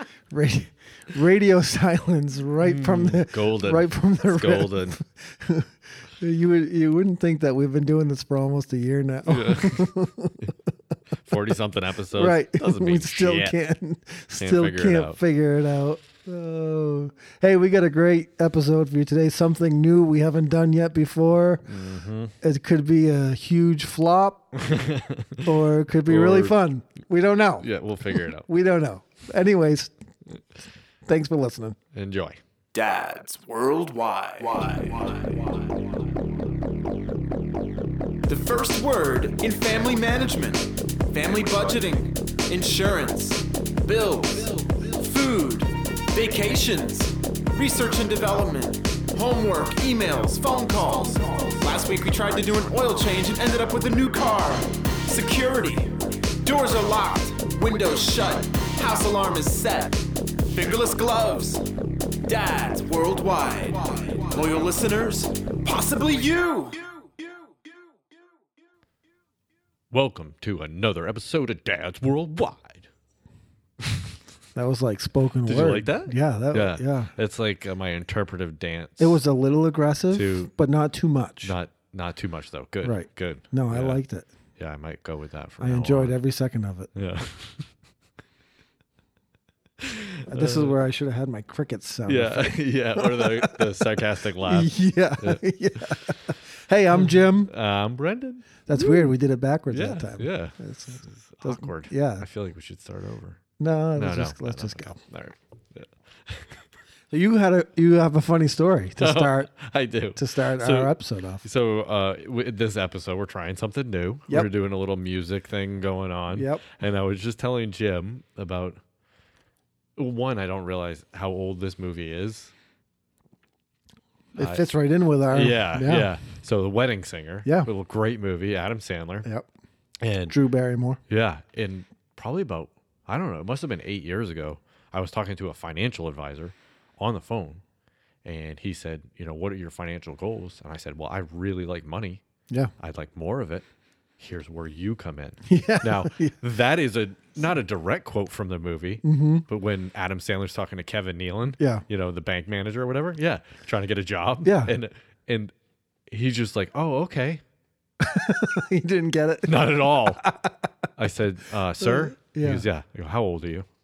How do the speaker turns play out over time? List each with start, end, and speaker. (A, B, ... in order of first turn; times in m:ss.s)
0:00.3-0:10.5 A
0:02.6-0:05.0 B
0:09.2-0:10.4 B
0:11.3-0:13.6 B
0:12.1-0:21.7 A
0:14.4-0:15.2 B
0:21.7-0:22.3 B
0:22.4-0:24.5 A
0:24.6-0:25.5 B
0:25.4-0:29.9 A
0:26.0-0:26.6 B
0:27.6-0:28.5 B
0:31.0-0:31.8 A
0:31.9-0:32.4 B
0:32.7-0:35.6 C
0:38.3-0:55.9 C
0:56.4-1:01.6 C
1:02.3-1:07.2 C
1:09.9-1:12.9 B
1:14.6-1:17.1 A
1:15.4-1:19.2 B
1:19.0-1:21.6 A
1:20.1-1:20.5 B
1:21.4-1:24.0 B
1:22.8-1:24.3 A
1:24.6-1:26.2 B
1:25.6-1:26.9 A
1:26.9-1:27.7 B
1:29.8-1:30.8 B
1:30.3-1:33.9 A
1:32.1-1:36.0 B
1:34.4-1:37.5 A
1:36.9-1:39.2 B
1:38.7-1:42.3 A
1:39.7-1:43.4 B
1:43.6-1:45.0 A
1:44.0-1:46.6 B
1:47.1-1:49.5 A
1:49.0-1:58.8 B
1:50.2-1:51.4 A
1:56.3-1:56.6 A
2:00.0-2:02.5 B
2:04.3-2:06.1 A
2:04.4-2:04.7 B
2:05.3-2:09.3 B
2:07.4-2:07.7 A
2:10.0-2:10.4 B
2:10.3-2:11.0 A
2:11.1-2:17.6 B
2:18.2-2:22.2 B
2:22.8-2:23.7 B
2:24.2-2:35.5 B
2:25.4-2:26.4 A
2:29.0-2:29.4 A
2:31.6-2:31.8 A
2:34.4-2:34.7 A
2:36.1-2:37.4 B
2:38.0-2:40.7 A
2:39.4-2:40.2 B
2:41.0-2:43.7 B
2:41.8-2:42.7 A